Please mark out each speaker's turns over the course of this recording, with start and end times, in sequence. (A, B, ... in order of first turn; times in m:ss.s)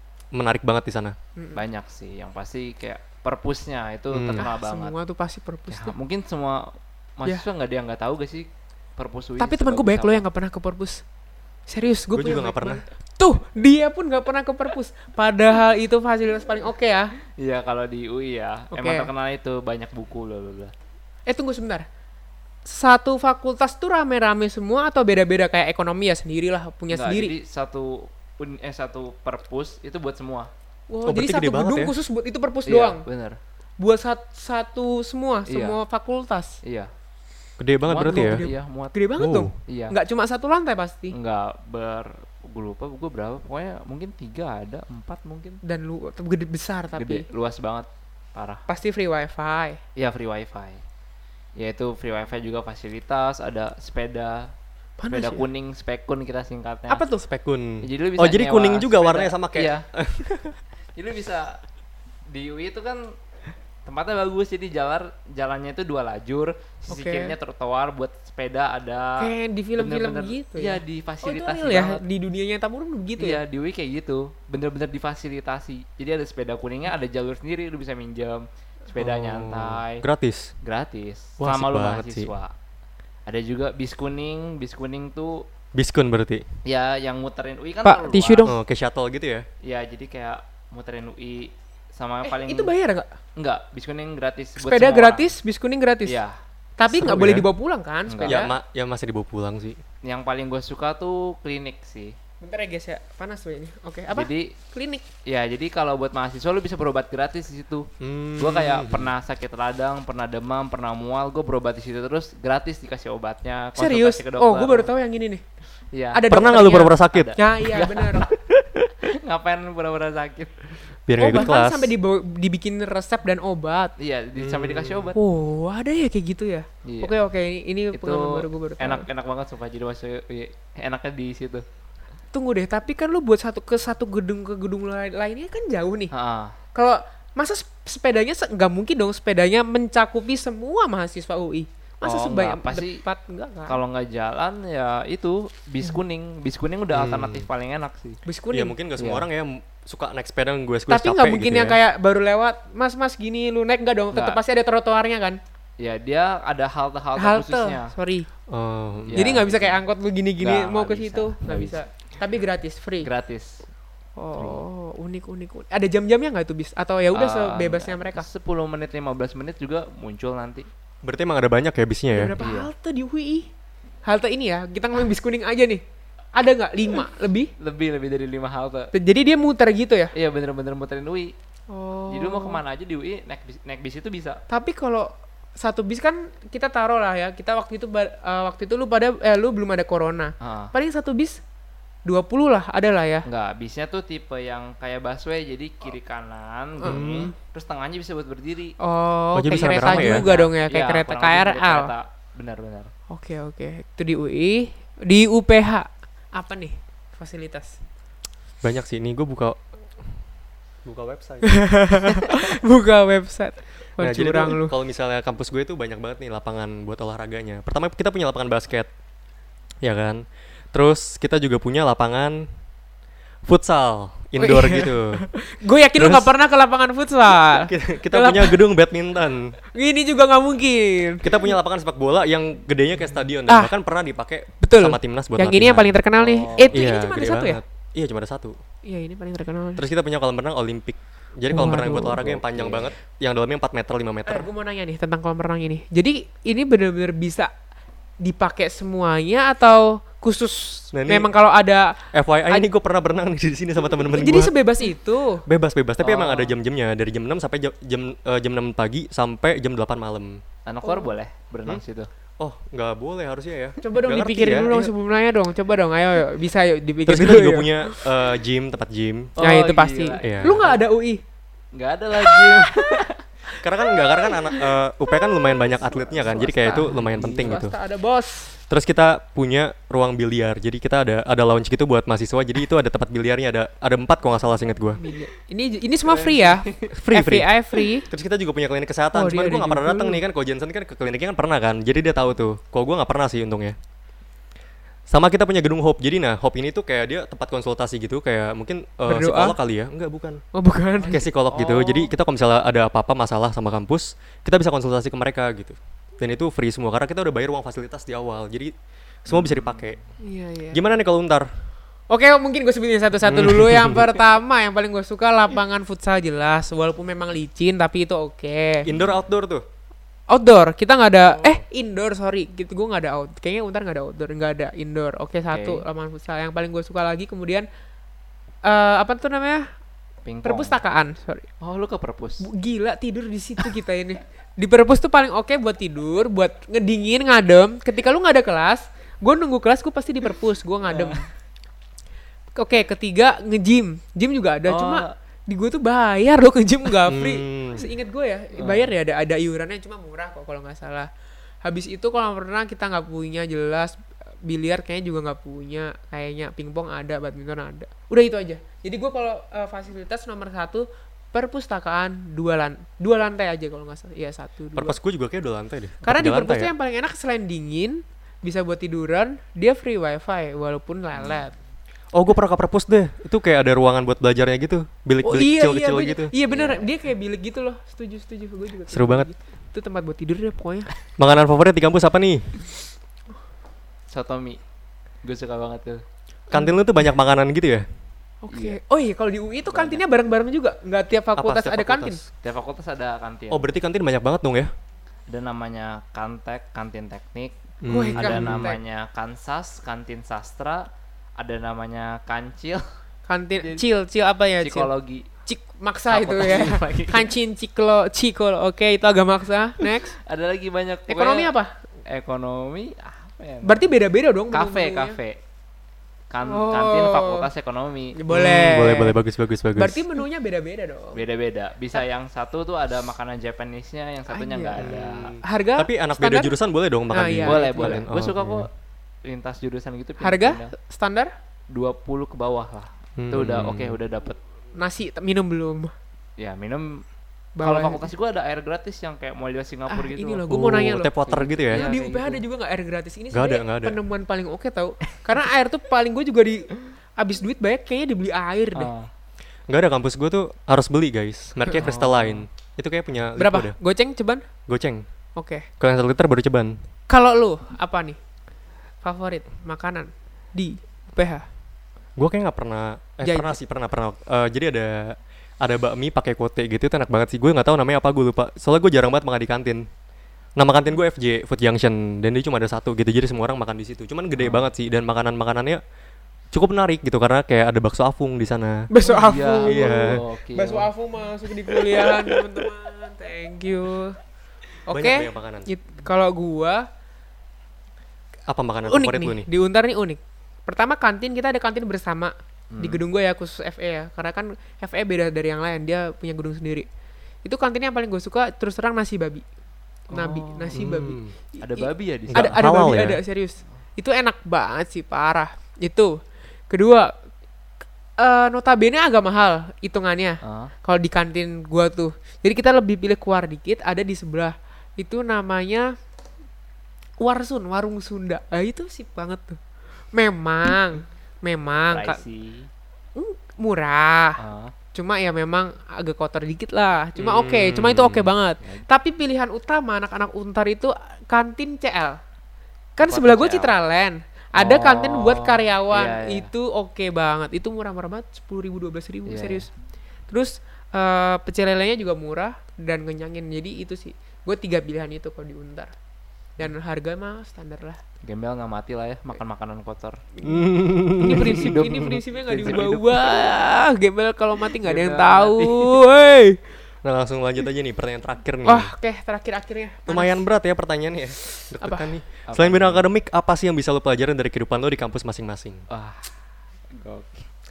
0:00.3-0:01.2 A
0:01.4-0:01.6 B
0:01.6-0:05.0 C
0:04.1-0:04.4 A
0:04.4-0:06.0 B
0:05.7-0:10.2 C
0:09.4-0:11.0 B
0:11.7-0:17.2 B
0:12.1-0:12.8 A
0:17.4-0:20.7 C
0:18.7-0:19.1 B
0:21.3-0:21.9 B
0:22.6-0:27.3 B
0:26.9-0:30.5 C
0:30.9-0:33.0 B
0:31.1-0:31.9 A
0:32.7-0:33.4 C
0:33.8-0:36.6 B
0:35.5-0:35.8 C
0:36.6-0:36.9 C
0:37.6-0:38.4 A
0:37.9-0:39.0 C
0:38.0-0:41.2 B
0:39.2-0:39.5 A
0:39.7-0:40.0 C
0:41.1-0:45.6 C
0:45.6-0:47.3 B
0:47.0-0:48.6 C
0:48.7-0:49.8 B
0:50.0-0:50.8 C
0:51.6-0:54.5 C
0:55.0-0:55.5 B
0:55.1-0:57.0 C
0:56.9-0:57.3 B
0:57.3-1:00.6 A
0:57.8-0:59.9 C
1:01.0-1:01.6 C
1:02.3-1:03.2 C
1:03.8-1:12.0 C
1:06.9-1:07.4 B
1:09.2-1:13.4 B
1:13.2-1:20.1 C
1:19.0-1:20.5 A
1:20.6-1:22.5 C
1:21.4-1:22.3 A
1:23.3-1:25.5 C
1:25.7-1:26.4 A
1:26.6-1:28.5 C
1:27.8-1:28.6 B
1:28.5-1:29.5 A
1:29.6-1:32.7 C
1:32.2-1:33.1 B
1:33.4-1:35.3 C
1:34.6-1:36.2 B
1:36.0-1:36.4 C
1:36.8-1:38.5 B
1:36.9-1:37.5 A
1:38.1-1:38.4 C
1:38.2-1:39.8 A
1:40.0-1:42.2 C
1:42.4-1:45.1 B
1:44.1-1:44.6 C
1:45.2-1:54.9 C
1:48.0-1:49.1 A
1:53.8-1:55.4 B
1:55.9-1:58.3 C
1:56.1-1:58.3 B
1:56.3-1:57.4 A
1:59.0-2:00.6 C
2:01.1-2:01.9 A
2:01.2-2:04.0 B
2:04.0-2:05.2 C
2:04.4-2:05.1 A
2:05.2-2:09.1 B
2:06.8-2:07.2 C
2:07.9-2:11.7 C
2:12.3-2:16.1 B
2:16.1-2:16.6 C
2:16.8-2:23.8 B
2:22.0-2:23.0 C
2:23.7-2:28.2 C
2:26.9-2:27.5 A
2:28.3-2:28.7 B
2:28.5-2:31.8 A
2:29.0-2:29.3 C
2:30.9-2:35.4 B
2:34.1-2:34.4 C
2:35.8-2:37.9 C
2:37.2-2:38.3 B
2:38.5-2:39.3 A
2:39.1-2:39.8 C
2:39.2-2:43.1 B
2:40.4-2:41.8 C
2:43.0-2:43.7 C
2:44.2-2:48.3 B
2:44.4-2:44.6 C
2:47.1-2:50.7 C
2:51.0-2:52.3 A
2:52.1-2:53.5 B
2:52.4-2:52.7 C
2:54.0-2:55.8 B
2:56.4-2:57.5 B
2:57.6-2:58.9 C
2:58.9-3:00.1 B
3:00.1-3:01.4 C
3:01.7-3:02.6 B
3:02.1-3:04.4 C
3:04.5-3:11.4 B
3:10.4-3:10.7 C
3:12.0-3:13.3 B
3:13.2-3:18.8 C
3:16.8-3:17.1 B
3:16.8-3:17.3 A
3:18.8-3:21.9 B
3:19.3-3:20.3 A
3:19.5-3:22.9 C
3:23.1-3:27.8 B
3:28.6-3:29.6 A
3:30.8-3:31.5 A
3:31.4-3:34.7 B
3:34.0-3:38.9 A
3:39.8-3:42.5 A
3:43.4-3:45.2 A
3:44.4-3:48.6 B
3:46.0-3:46.3 A
3:47.5-3:49.6 A
3:49.7-3:51.5 B
3:51.2-3:55.9 A
3:53.5-3:53.7 B
3:54.6-3:57.6 B
3:56.2-3:56.8 C
3:56.7-3:58.6 A
3:58.8-3:59.8 B
3:59.8-4:04.5 A
4:01.5-4:02.2 B
4:02.2-4:02.9 C
4:04.3-4:07.5 B
4:08.2-4:12.7 B
4:10.9-4:11.3 A
4:12.1-4:14.5 A
4:14.1-4:15.4 B
4:15.5-4:20.4 A
4:16.0-4:16.6 C
4:20.7-4:22.1 C
4:22.4-4:24.9 A
4:23.8-4:28.2 B
4:27.1-4:29.4 A
4:29.4-4:30.8 C
4:29.4-4:31.2 B
4:30.2-4:30.6 A
4:31.7-4:33.2 C
4:32.2-4:33.0 B
4:33.6-4:37.8 A
4:33.8-4:38.6 B
4:36.4-4:37.6 C
4:38.7-4:45.0 A
4:45.0-4:48.1 B
4:46.0-4:46.9 C
4:47.0-4:47.5 A
4:48.1-4:53.8 A
4:49.1-4:50.2 B
4:55.1-5:00.4 A
4:59.1-4:59.6 B
5:00.5-5:01.3 B
5:01.0-5:02.1 C
5:01.1-5:08.7 A
5:09.2-5:10.0 A
5:09.3-5:10.0 C
5:10.2-5:10.8 B
5:10.7-5:11.5 A
5:12.1-5:18.9 B
5:13.3-5:14.0 A
5:18.8-5:19.6 A
5:20.3-5:27.7 B
5:25.5-5:25.8 C
5:28.6-5:29.7 B
5:30.2-5:30.8 C
5:30.4-5:31.5 B
5:31.6-5:32.5 C
5:32.4-5:41.3 B
5:40.8-5:41.2 C
5:42.5-5:51.1 B
5:44.7-5:45.1 C
5:47.1-5:47.8 A
5:48.6-5:48.9 C
5:51.6-6:05.0 B
6:04.8-6:06.7 A
6:06.1-6:11.6 B
6:11.2-6:11.4 C
6:12.1-6:16.3 A
6:15.2-6:20.9 B
6:16.5-6:16.9 C
6:18.9-6:19.3 A
6:21.2-6:22.5 A
6:24.1-6:24.6 C
6:25.2-6:26.0 C
6:26.5-6:27.9 A
6:26.5-6:26.8 B
6:28.4-6:32.2 B
6:28.5-6:28.8 C
6:29.7-6:30.0 C
6:31.4-6:32.3 A
6:32.4-6:33.7 C
6:33.5-6:34.7 A
6:35.3-6:37.6 C
6:37.8-6:38.7 A
6:37.9-6:38.8 B
6:38.2-6:42.8 C
6:43.3-6:44.9 B
6:43.6-6:43.8 C
6:44.6-6:45.3 C
6:45.5-6:50.2 B
6:46.1-6:47.3 C
6:50.2-6:51.5 C
6:51.1-6:51.8 B
6:52.0-6:53.9 C
6:53.6-6:55.2 B
6:54.5-6:55.4 C
6:56.3-6:58.2 C
6:56.5-6:57.5 B
6:58.2-6:59.2 B
6:58.3-7:00.0 A
6:59.8-7:01.2 B
7:01.1-7:05.4 C
7:04.3-7:06.6 B
7:04.8-7:08.7 A
7:07.1-7:08.0 B
7:07.4-7:08.7 C
7:09.2-7:10.7 C
7:10.2-7:11.3 B
7:11.7-7:14.4 C
7:13.2-7:14.0 A
7:14.8-7:15.9 B
7:16.4-7:17.0 C
7:17.6-7:18.1 B
7:17.6-7:22.4 C
7:19.9-7:21.1 B
7:20.5-7:21.8 A
7:21.7-7:28.9 B
7:23.3-7:24.0 A
7:28.7-7:29.1 C
7:29.7-7:33.7 A
7:31.8-7:32.4 C
7:33.4-7:34.4 B
7:34.7-7:35.0 A
7:35.4-7:35.7 B
7:35.8-7:36.8 A
7:37.1-7:38.2 B
7:39.0-7:41.5 B
7:42.2-7:49.9 A
7:43.2-7:43.6 B
7:50.6-7:55.8 A
7:54.4-7:54.7 C
7:56.5-7:58.9 A
7:58.9-8:04.2 B
7:59.0-8:00.9 C
7:59.6-8:00.2 A
8:04.9-8:06.9 B
8:04.9-8:05.7 A
8:08.5-8:09.5 A
8:08.9-8:16.9 B
8:12.7-8:13.0 C
8:17.4-8:19.4 B
8:20.1-8:20.9 C
8:20.1-8:26.2 B
8:20.7-8:21.3 A
8:21.6-8:22.6 C
8:22.3-8:23.2 A
8:26.7-8:27.1 B
8:28.2-8:35.9 B
8:30.4-8:30.7 C
8:37.2-8:39.6 B
8:40.1-8:42.2 B
8:41.9-8:42.7 C
8:43.2-8:44.4 B
8:44.4-8:44.8 C
8:44.9-8:52.2 B
8:47.2-8:47.5 C
8:47.3-8:48.3 A
8:53.0-8:59.7 B
8:53.0-8:53.7 C
8:54.6-8:56.5 C
8:59.3-8:59.7 C
9:00.3-9:05.9 B
9:06.6-9:08.0 B
9:08.2-9:10.2 C
9:10.4-9:16.6 B
9:10.4-9:11.7 A
9:11.2-9:13.6 C
9:14.8-9:16.0 C
9:17.0-9:18.9 A
9:18.6-9:20.4 B
9:20.1-9:25.8 A
9:21.8-9:22.1 B
9:22.5-9:23.0 C
9:25.9-9:26.3 C
9:26.9-9:27.5 C